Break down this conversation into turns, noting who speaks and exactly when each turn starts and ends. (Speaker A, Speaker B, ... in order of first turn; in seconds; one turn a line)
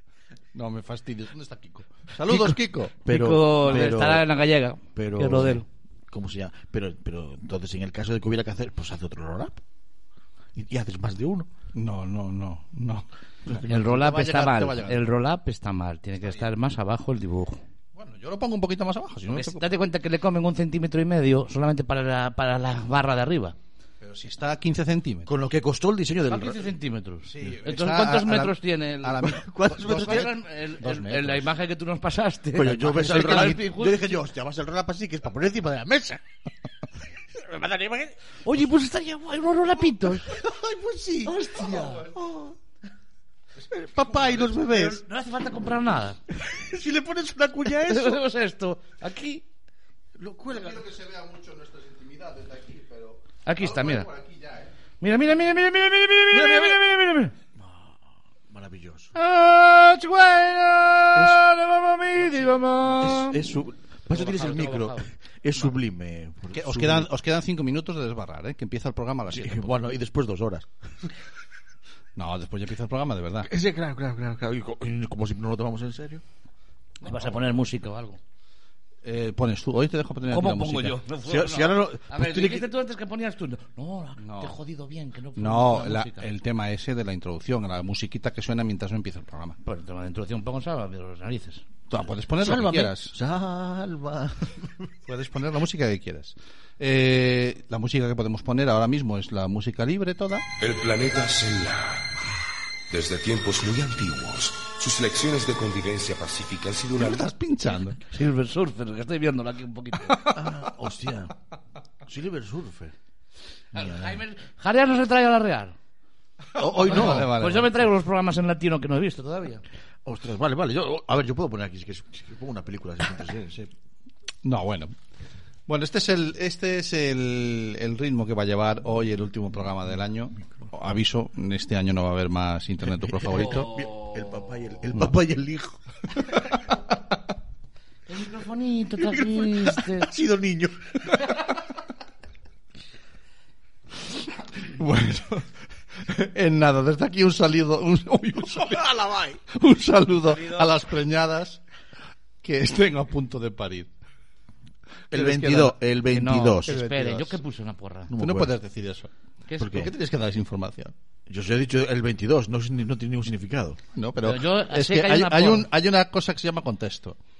Speaker A: 0.5-3.0
Speaker B: 2.3-5.6
Speaker C: 3.0-4.2
Speaker C: 5.0-9.6
Speaker C: 10.5-11.5
Speaker A: 11.7-15.0
Speaker B: 13.6-17.6
Speaker A: 17.9-19.6
Speaker B: 19.3-23.6
Speaker A: 24.0-25.3
Speaker C: 25.2-26.7
Speaker B: 26.3-34.2
Speaker A: 27.2-31.5
Speaker C: 29.3-30.4
Speaker C: 32.5-36.2
Speaker C: 37.3-38.1
Speaker B: 38.4-40.3
Speaker C: 40.2-42.5
Speaker B: 41.2-42.1
Speaker A: 41.7-42.1
Speaker C: 43.7-45.0
Speaker B: 44.4-46.2
Speaker C: 46.3-48.2
Speaker B: 47.6-49.4
Speaker C: 50.2-50.8
Speaker A: 50.5-54.7
Speaker B: 53.4-54.1
Speaker B: 55.0-57.3
Speaker C: 56.3-56.8
Speaker C: 57.6-57.9
Speaker C: 58.5-59.1
Speaker B: 59.1-63.4
Speaker C: 61.1-61.4
Speaker C: 63.0-67.1
Speaker B: 64.1-65.0
Speaker A: 66.5-69.8
Speaker C: 69.3-71.1
Speaker A: 72.2-73.5
Speaker C: 73.5-76.2
Speaker B: 77.0-78.2
Speaker A: 79.0-81.0
Speaker B: 80.3-86.3
Speaker C: 81.2-82.7
Speaker A: 84.2-84.5
Speaker A: 85.4-89.6
Speaker B: 89.6-91.7
Speaker A: 91.9-93.1
Speaker C: 92.4-94.9
Speaker A: 95.1-100.4
Speaker D: 100.6-102.0
Speaker D: 102.9-107.0
Speaker A: 107.0-108.0
Speaker B: 108.0-110.3
Speaker A: 110.1-110.4
Speaker C: 110.2-111.3
Speaker C: 112.0-112.9
Speaker C: 113.7-114.2
Speaker B: 113.7-115.7
Speaker A: 116.5-117.8
Speaker C: 116.6-117.3
Speaker B: 116.9-119.6
Speaker C: 120.0-123.7
Speaker A: 124.4-124.9
Speaker A: 125.7-133.7
Speaker C: 133.1-136.4
Speaker B: 133.3-134.4
Speaker B: 138.1-140.1
Speaker C: 139.0-141.3
Speaker A: 144.6-148.9
Speaker C: 148.5-149.4
Speaker A: 149.5-151.6
Speaker B: 150.3-150.7
Speaker A: 152.4-153.9
Speaker C: 155.1-157.2
Speaker A: 155.1-155.8
Speaker B: 156.1-158.1
Speaker A: 156.7-157.2
Speaker C: 158.1-158.5
Speaker A: 158.2-160.9
Speaker B: 159.5-159.7
Speaker C: 159.6-159.9
Speaker C: 161.3-163.8
Speaker A: 163.9-167.2
Speaker B: 164.2-165.7